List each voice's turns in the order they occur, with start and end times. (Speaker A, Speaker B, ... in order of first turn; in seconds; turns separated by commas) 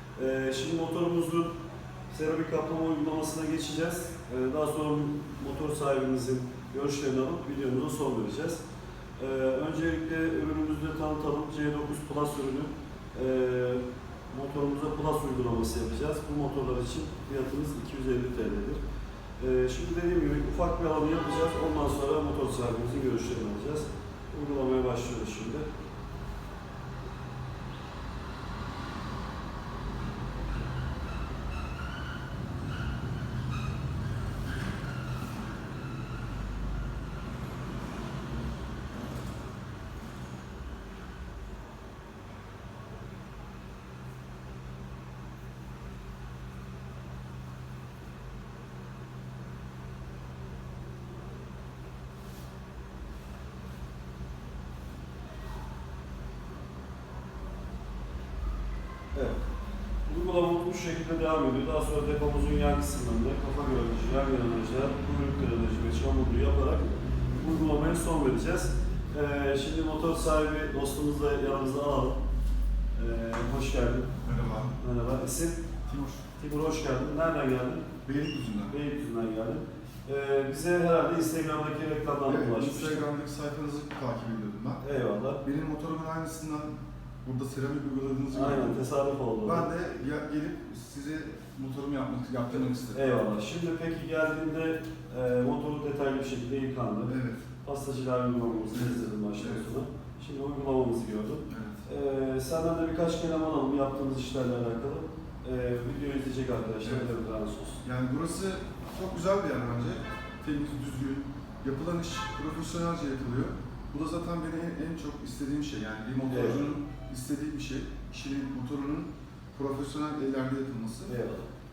Speaker A: 0.1-1.5, Speaker A: 2.1-8.6, Speaker A: 9.2-18.8, Speaker A: 19.4-25.7, Speaker A: 60.1-72.2, Speaker A: 72.9-74.1, Speaker B: 74.2-74.8, Speaker A: 74.8-75.6, Speaker B: 75.8-76.2, Speaker A: 76.4-77.9, Speaker B: 78.0-78.8, Speaker A: 78.7-83.0, Speaker B: 82.2-84.8, Speaker A: 84.8-85.4, Speaker B: 85.4-88.8, Speaker A: 88.3-89.7, Speaker B: 89.4-93.1, Speaker A: 92.9-107.8, Speaker B: 97.1-97.4, Speaker B: 98.7-99.7, Speaker B: 101.5-101.8, Speaker B: 106.8-107.1, Speaker B: 107.8-121.1, Speaker A: 116.3-116.6, Speaker A: 121.1-121.5